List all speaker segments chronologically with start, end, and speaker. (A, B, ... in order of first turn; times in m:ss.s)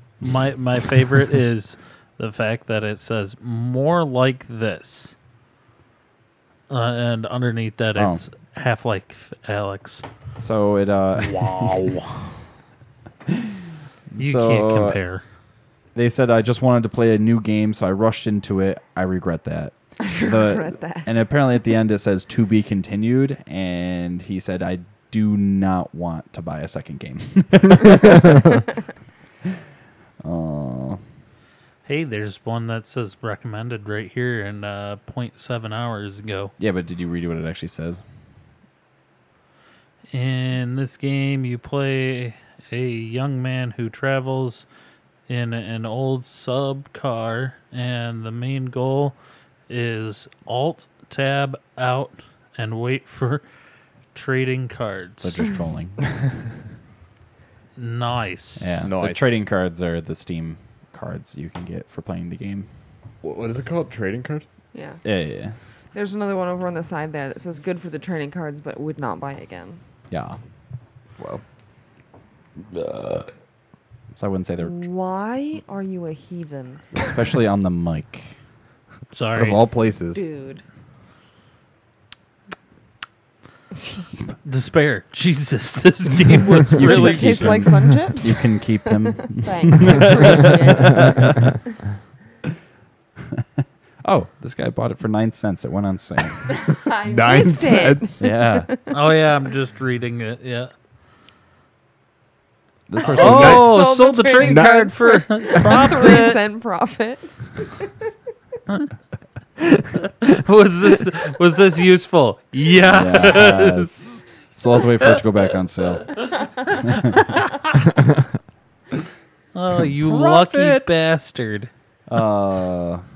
0:00.2-0:05.2 A
0:06.7-0:10.0 A
0:08.0-0:08.2 B
0:10.4-0:11.8 B
0:11.2-0:12.2 A
0:13.3-0:13.6 B
0:14.1-0:15.0 B
0:14.2-0:15.2 A
0:16.0-0:28.6 B
0:20.0-0:21.1 C
0:28.2-0:28.5 D
0:30.2-0:31.0 B
0:31.9-0:36.5 A
0:36.6-0:38.0 B
0:40.1-0:44.7 A
0:45.3-0:49.2 A
0:49.7-0:53.4 A
0:54.1-0:55.4 A
0:55.2-0:56.0 B
0:57.8-0:58.8 A
0:58.6-1:02.7 B
0:58.8-0:59.3 D
1:03.2-1:04.4 D
1:04.7-1:05.0 C
1:05.0-1:05.6 B
1:05.9-1:09.8 C
1:10.1-1:10.4 B
1:11.2-1:11.4 D
1:12.8-1:13.3 D
1:14.2-1:14.8 B
1:14.6-1:17.0 C
1:17.0-1:18.4 B
1:19.1-1:19.6 A
1:19.3-1:20.2 D
1:20.1-1:20.6 C
1:24.4-1:27.6 A
1:26.7-1:31.6 B
1:26.8-1:31.5 C
1:34.0-1:36.6 B
1:36.5-1:38.9 C
1:37.1-1:38.2 D
1:38.2-1:38.7 B
1:38.9-1:40.7 A
1:42.9-1:43.8 B
1:43.0-1:47.9 C
1:43.0-1:46.4 A
1:43.2-1:43.6 D
1:44.4-1:45.8 D
1:50.2-1:54.2 A
1:52.8-1:57.3 B
1:59.5-2:01.7 A
2:00.0-2:00.9 B
2:02.1-2:03.0 B